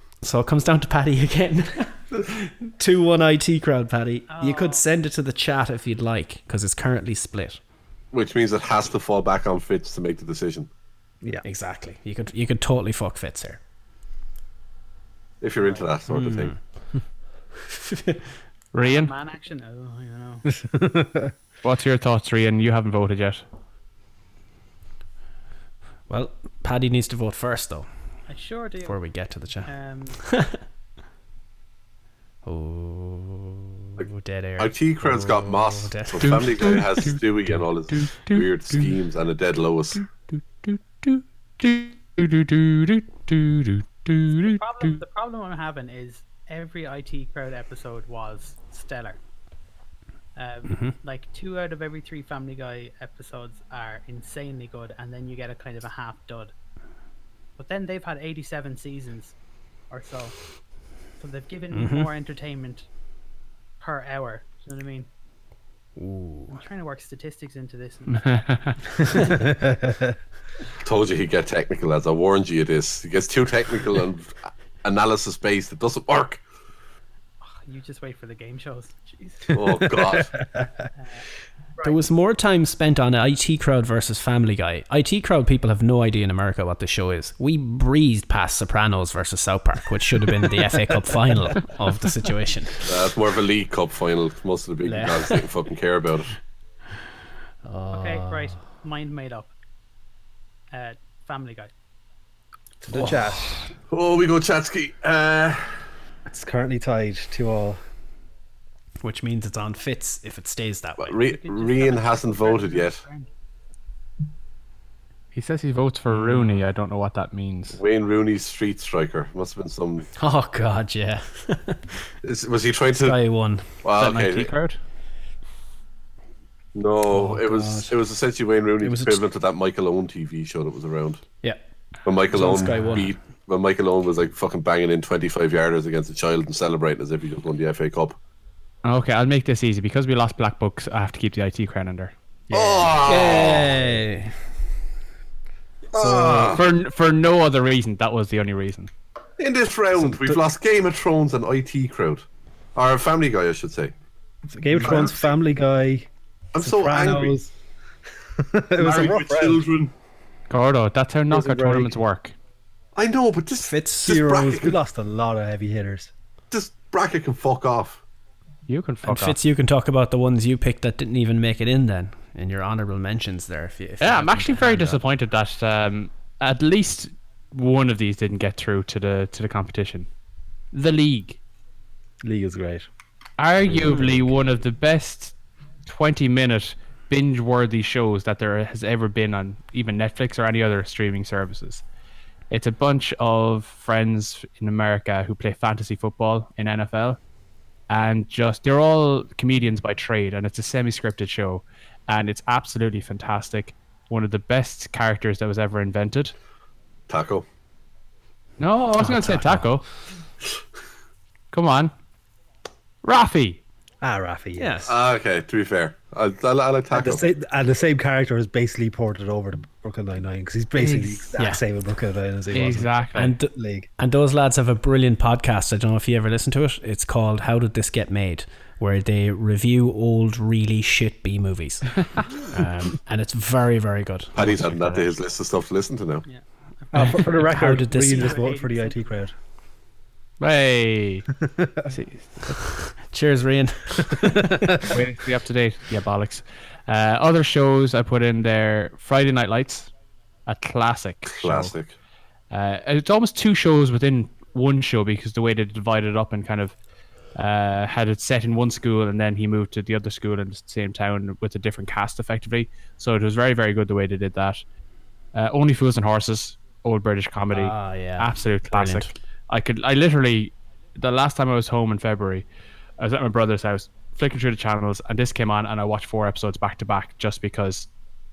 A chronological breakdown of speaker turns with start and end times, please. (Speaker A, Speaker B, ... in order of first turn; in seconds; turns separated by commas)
Speaker A: 0.2-7.6, Speaker B: 4.3-4.8, Speaker C: 8.1-10.7, Speaker A: 11.4-13.6, Speaker C: 15.4-16.5, Speaker B: 15.6-15.9, Speaker A: 16.1-16.6, Speaker A: 17.7-18.3, Speaker D: 18.7-19.1, Speaker B: 18.8-20.5, Speaker E: 20.6-21.3, Speaker D: 21.6-23.4, Speaker A: 26.1-27.9, Speaker B: 28.3-29.0, Speaker A: 28.8-29.7, Speaker B: 29.6-30.2, Speaker A: 30.2-30.6, Speaker A: 32.4-36.5, Speaker C: 34.0-40.0, Speaker D: 36.2-37.2, Speaker D: 37.9-38.9, Speaker D: 40.0-45.0, Speaker B: 44.4-49.2, Speaker B: 50.4-56.5, Speaker A: 50.7-51.0, Speaker B: 57.6-59.3, Speaker B: 59.9-60.4, Speaker B: 61.2-62.9, Speaker A: 61.7-62.1, Speaker B: 63.8-65.1, Speaker A: 66.0-66.6, Speaker B: 66.5-68.4, Speaker D: 68.1-68.8, Speaker B: 68.9-69.2, Speaker E: 69.4-70.2, Speaker C: 70.8-76.4, Speaker B: 77.4-79.6, Speaker C: 79.5-80.4, Speaker E: 79.9-80.7, Speaker B: 80.9-81.2, Speaker A: 81.8-92.8, Speaker C: 92.8-96.3, Speaker A: 94.8-95.4, Speaker A: 97.7-98.6, Speaker B: 97.9-99.5, Speaker B: 100.7-101.7, Speaker A: 102.9-103.3, Speaker E: 102.9-103.6, Speaker C: 103.9-105.8, Speaker E: 106.3-107.8, Speaker A: 109.0-111.1, Speaker C: 111.0-113.0, Speaker B: 111.2-113.3, Speaker D: 115.3-117.8, Speaker C: 117.7-120.1, Speaker A: 120.2-122.1, Speaker C: 122.2-123.2, Speaker A: 123.0-123.7, Speaker C: 123.8-124.5, Speaker D: 124.0-124.8, Speaker C: 126.7-131.2, Speaker A: 127.1-127.9, Speaker A: 128.8-129.2, Speaker C: 132.0-138.2, Speaker A: 132.3-133.1, Speaker D: 138.8-142.1, Speaker C: 142.5-143.8, Speaker A: 142.5-144.3, Speaker C: 145.9-146.6, Speaker A: 146.0-146.6, Speaker E: 146.2-146.5, Speaker D: 146.5-148.9, Speaker C: 149.4-153.9, Speaker E: 154.5-157.5, Speaker C: 154.8-155.3, Speaker C: 156.5-157.3, Speaker E: 158.4-159.6, Speaker C: 158.8-159.9, Speaker D: 160.5-162.3, Speaker E: 161.3-161.9, Speaker C: 162.9-164.8, Speaker A: 163.6-164.2, Speaker E: 164.0-166.1, Speaker C: 166.5-168.0, Speaker D: 168.7-169.4, Speaker A: 169.0-175.0, Speaker D: 174.0-180.1, Speaker D: 180.7-181.4, Speaker E: 182.2-182.9, Speaker D: 183.4-185.3, Speaker E: 183.7-184.1, Speaker D: 185.8-191.8, Speaker D: 192.5-197.2, Speaker D: 197.9-206.3, Speaker C: 207.1-207.4, Speaker D: 208.6-209.8, Speaker A: 209.0-209.7, Speaker D: 211.5-211.9, Speaker D: 213.0-213.6, Speaker E: 214.0-214.8, Speaker A: 214.6-214.9, Speaker C: 214.8-217.3, Speaker E: 216.9-223.0, Speaker A: 220.8-221.6, Speaker D: 222.5-223.3, Speaker A: 223.1-235.1, Speaker E: 223.5-223.9, Speaker C: 234.3-236.2, Speaker B: 236.2-239.2, Speaker A: 236.9-238.4, Speaker E: 236.9-239.3, Speaker D: 240.4-241.3, Speaker E: 241.6-241.8, Speaker D: 241.9-242.8, Speaker A: 242.8-244.8, Speaker D: 244.8-249.9, Speaker D: 250.4-251.7, Speaker C: 251.3-251.9, Speaker D: 252.5-256.7, Speaker D: 257.3-264.6, Speaker D: 265.3-272.4, Speaker A: 267.5-269.1, Speaker D: 273.0-277.9